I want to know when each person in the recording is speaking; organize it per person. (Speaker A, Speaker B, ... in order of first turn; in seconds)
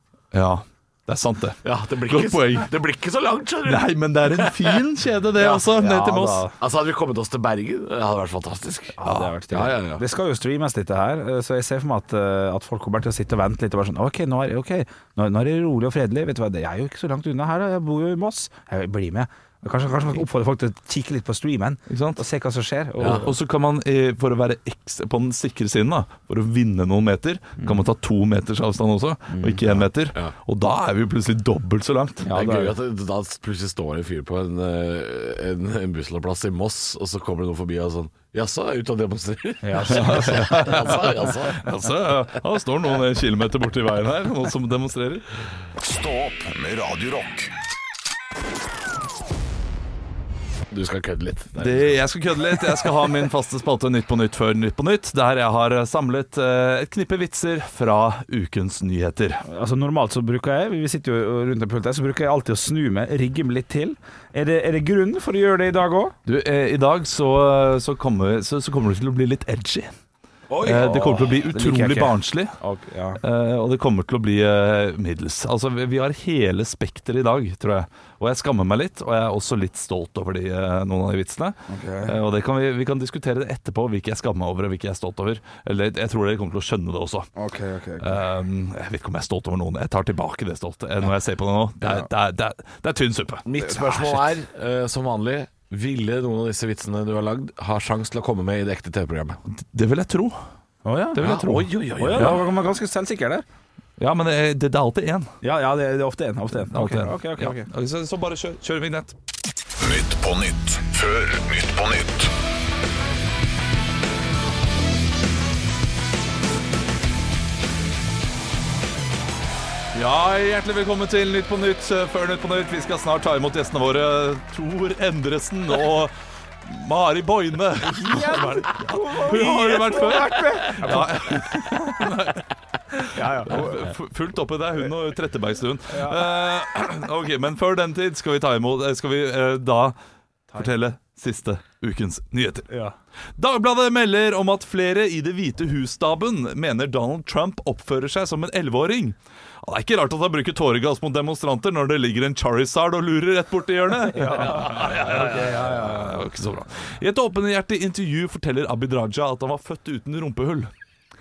Speaker A: 0.3-2.7, 3.6-6.5, 9.0-9.3, 21.9-22.2, 23.0-32.3, 39.9-45.3, 51.6-59.4, 66.2-69.9, 70.6-72.6, 73.2-87.3, 88.0-93.5, 99.5-100.4, 101.1-102.4, 104.0-105.3, 106.7-109.1, 119.9-126.1, 126.6-132.4, 133.0-139.9, 140.6-142.7, 143.3-160.7
Speaker B: 1.6-4.8, 6.6-9.0, 9.5-10.0, 23.0-23.3, 32.2-41.6, 50.7-52.0, 93.4-99.4, 101.2-102.4
Speaker C: 5.4-6.5, 9.0-23.3, 29.3-29.6, 32.2-32.7, 39.6-40.9, 59.4-66.1, 70.5-73.2, 81.7-82.1, 87.3-88.2, 91.8-92.1, 93.6-94.2, 100.8-101.4, 102.0-103.4, 105.4-107.7, 127.8-131.8, 133.0-133.9, 135.9-136.2, 142.7-142.9, 154.2-156.1
Speaker D: 45.8-47.5, 109.8-112.3